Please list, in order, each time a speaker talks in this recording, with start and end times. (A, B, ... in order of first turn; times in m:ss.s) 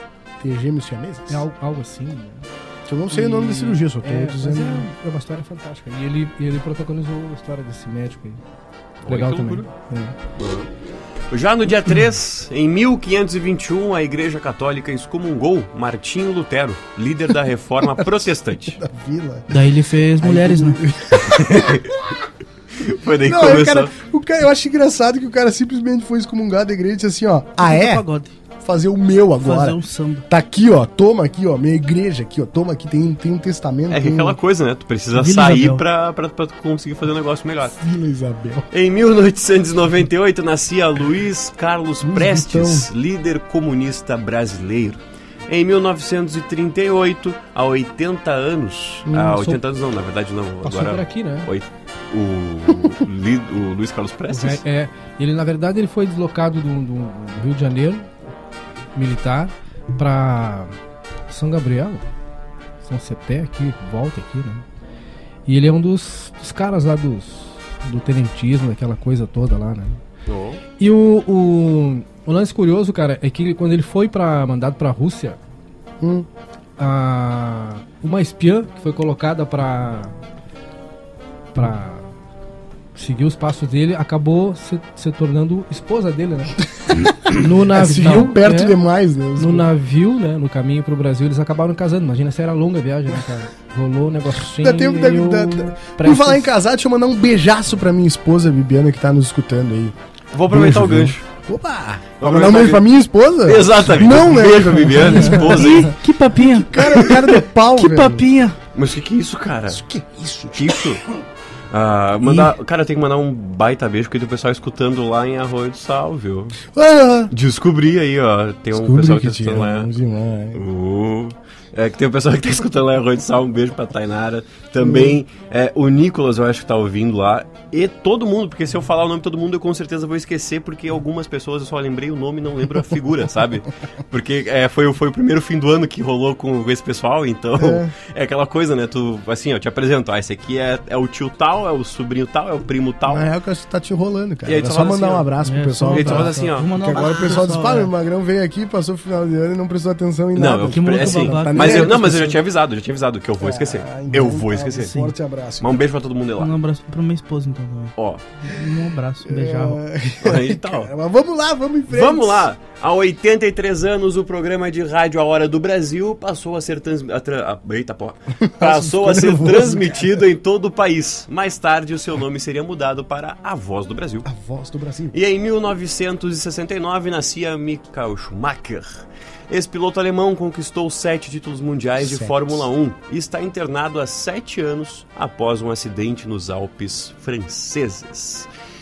0:00.4-0:01.5 A
0:01.3-0:02.5 B
0:02.9-0:04.9 A
0:03.1-0:08.4 B
0:09.0-0:09.7 C
0:09.0-0:10.2 B
0:10.4-0:10.7 C
0:11.3-0:18.8 C
0:17.9-0:22.2 A
0:19.5-0:20.8 D
0:21.1-0:21.9 C
0:22.8-0:23.9 C
0:23.2-0:28.0 A
0:27.6-0:28.3 D
0:28.6-0:34.4 A
0:29.4-0:30.3 D
0:33.9-0:37.8 C
0:35.1-0:35.8 D
0:37.8-0:38.7 A
0:38.7-0:54.6 C
0:42.0-0:42.9 A
0:49.1-0:49.6 B
0:50.6-0:51.5 B
0:54.3-0:58.1 B
0:59.0-1:00.8 B
1:01.3-1:02.1 B
1:02.8-1:04.6 B
1:05.5-1:10.0 B
1:10.3-1:10.6 C
1:10.8-1:15.4 B
1:16.0-1:16.3 A
1:16.8-1:20.1 B
1:21.5-1:22.1 B
1:23.0-1:26.6 B
1:26.9-1:29.7 A
1:27.2-1:28.8 B
1:29.4-1:36.5 B
1:34.6-1:40.0 A
1:40.3-1:41.2 C
1:40.5-1:45.7 A
1:42.2-1:42.9 C
1:43.4-1:46.0 C
1:45.1-1:46.9 D
1:46.4-1:48.3 A
1:46.8-1:47.4 C
1:47.8-1:48.6 D
1:48.7-1:49.8 C
1:49.7-1:51.0 A
1:50.5-1:51.1 C
1:51.7-1:56.6 C
1:56.6-1:57.3 A
1:57.3-1:59.9 C
1:58.7-2:00.6 A
2:00.6-2:23.3 C
2:04.8-2:05.2 A
2:17.6-2:17.9 A
2:23.1-2:32.4 A
2:24.4-2:25.3 C
2:25.4-2:27.9 D
2:25.9-2:27.4 C
2:30.4-2:35.1 C
2:30.7-2:32.3 D
2:33.4-2:35.8 A
2:35.6-2:36.5 C
2:36.4-2:39.8 D
2:38.0-2:38.2 C
2:39.2-2:42.5 A
2:40.2-2:40.9 C
2:41.9-2:54.3 C
2:48.4-2:50.2 A
2:54.2-2:55.2 A
2:55.1-3:08.5 C
3:02.0-3:02.7 A